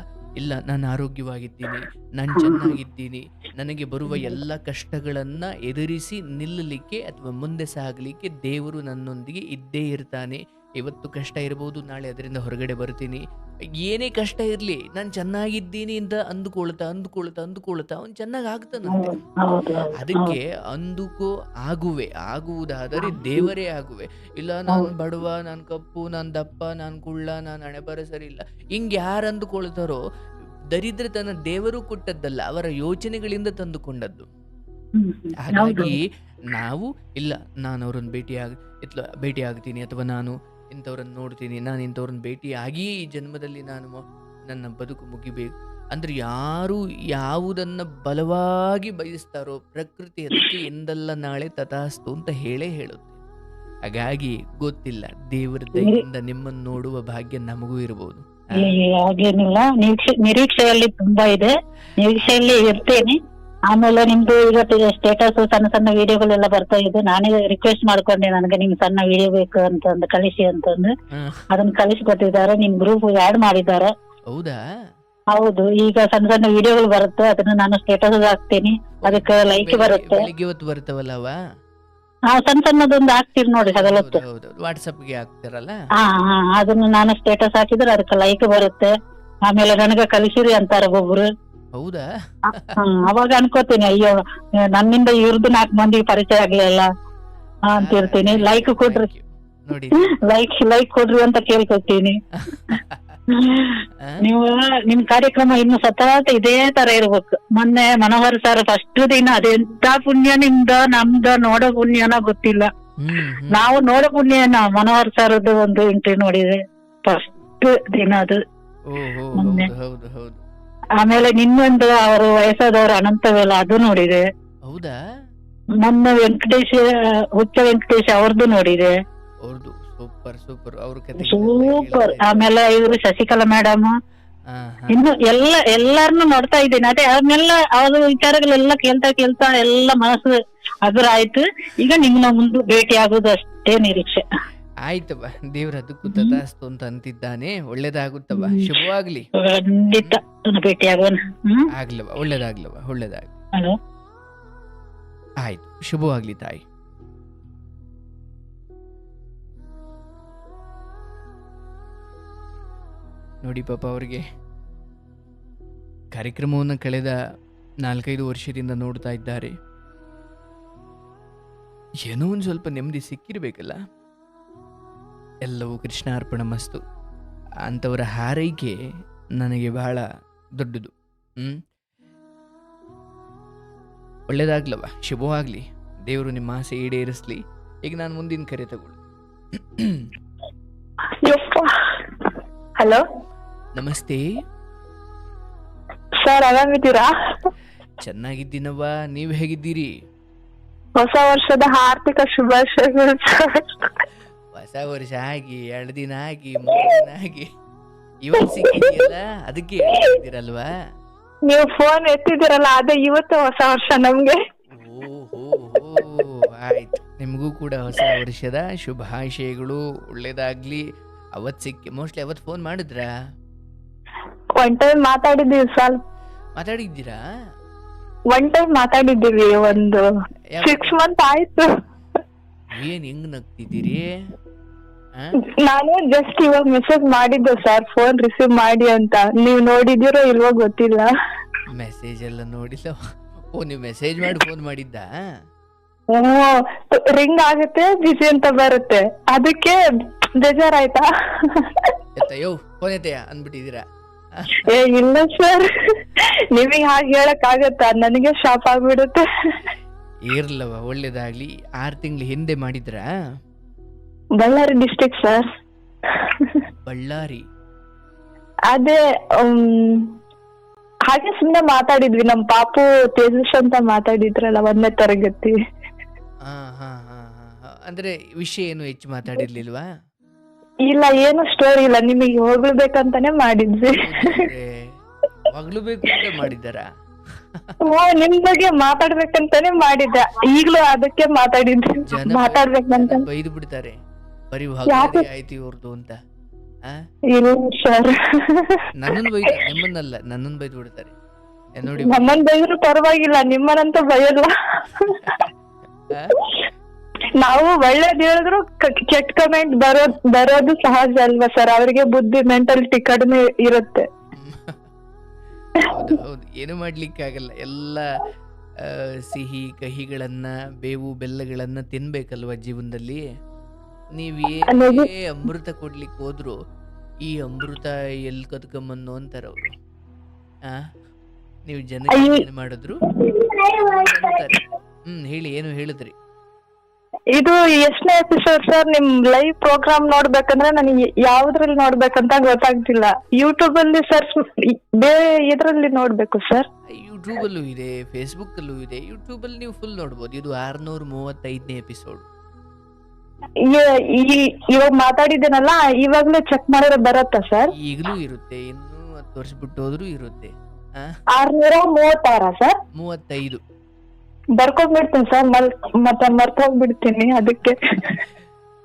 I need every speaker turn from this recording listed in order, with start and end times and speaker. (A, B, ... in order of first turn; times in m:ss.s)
0:00.4-0:13.2 A
0:02.3-0:02.7 B
0:13.8-0:19.2 A
0:18.9-0:20.3 B
0:20.0-0:30.0 A
0:23.0-0:23.4 B
0:30.7-0:34.3 A
0:35.0-0:35.9 B
0:35.4-0:53.2 A
0:53.9-0:58.8 A
0:55.8-0:56.0 B
0:58.6-1:03.2 B
1:02.2-1:02.8 A
1:03.7-1:10.9 B
1:11.1-1:11.4 A
1:11.5-1:13.9 B
1:14.3-1:14.6 A
1:15.3-1:20.2 B
1:19.0-1:21.3 A
1:22.3-1:24.2 B
1:23.6-1:25.8 A
1:26.0-1:28.9 B
1:29.5-1:31.3 B
1:31.7-1:32.8 A
1:32.8-1:36.9 B
1:37.7-1:39.1 B
1:37.7-1:40.1 A
1:40.0-1:42.2 B
1:42.4-1:43.2 A
1:43.3-1:52.7 B
1:53.0-1:53.7 A
1:53.5-1:58.4 B
1:58.9-2:00.4 A
1:59.4-1:59.7 B
2:01.0-2:04.2 B
2:04.6-2:05.0 A
2:05.8-2:06.8 B
2:07.4-2:08.9 B
2:09.4-2:12.5 A
2:11.2-2:13.9 B
2:14.5-2:15.0 A
2:14.9-2:24.2 B
2:24.8-2:29.3 A
2:26.1-2:26.4 B
2:28.4-2:28.7 B
2:29.4-2:31.7 B
2:31.7-2:33.3 A
2:35.4-2:36.6 A
2:43.4-2:44.2 A
2:46.1-2:47.2 A
2:47.8-2:49.5 A
2:52.0-2:53.8 A
2:55.4-2:56.8 A
2:57.6-2:58.8 A
2:59.4-3:00.0 A
3:00.6-3:01.6 A
3:04.3-3:09.0 A
3:09.5-3:10.1 A
3:11.2-3:13.0 C
3:13.8-3:14.2 A
3:16.2-3:17.1 C
3:18.0-3:19.9 A
3:21.0-3:23.9 C
3:24.5-3:27.5 A
3:28.2-3:30.7 A
3:28.4-3:29.0 C
3:31.5-3:34.4 C
3:34.7-3:40.8 A
3:41.4-3:43.1 A
3:44.6-3:46.0 C
3:46.6-3:47.2 A
3:48.3-3:50.1 C
3:50.5-3:51.0 A
3:50.6-3:51.7 C
3:52.7-3:54.1 A
3:55.4-4:01.1 C
4:01.7-4:03.0 A
4:03.5-4:05.1 A
4:06.1-4:09.8 C
4:10.3-4:11.9 C
4:12.2-4:14.7 A
4:14.6-4:19.2 C
4:20.2-4:23.1 A
4:24.4-4:25.5 C
4:26.1-4:26.6 C
4:26.8-4:27.4 A
4:28.7-4:30.2 C
4:31.1-4:35.6 C
4:36.4-4:39.9 A
4:40.9-4:44.5 C
4:43.9-4:44.9 A
4:45.5-4:47.8 A
4:47.8-4:53.2 C
4:52.0-4:53.9 A
4:54.5-4:56.2 A
4:54.9-4:55.2 C
4:57.3-4:58.9 C
4:59.0-5:01.1 A
5:01.8-5:02.4 A
5:02.0-5:05.3 C
5:05.2-5:05.5 A
5:06.1-5:06.4 A
5:07.4-5:14.1 C
5:14.3-5:14.8 A
5:15.8-5:18.0 A
5:18.8-5:23.2 A
5:24.1-5:26.6 A
5:24.7-5:25.1 C
5:27.2-5:29.8 A
5:31.7-5:33.0 A
5:32.1-5:32.4 C
5:33.1-5:34.5 C
5:33.7-5:36.1 A
5:37.4-5:46.7 C
5:46.9-5:52.2 A
5:53.6-5:57.7 C
5:57.8-6:01.1 A
6:01.3-6:02.8 C
6:03.0-6:03.6 A
6:04.6-6:08.2 C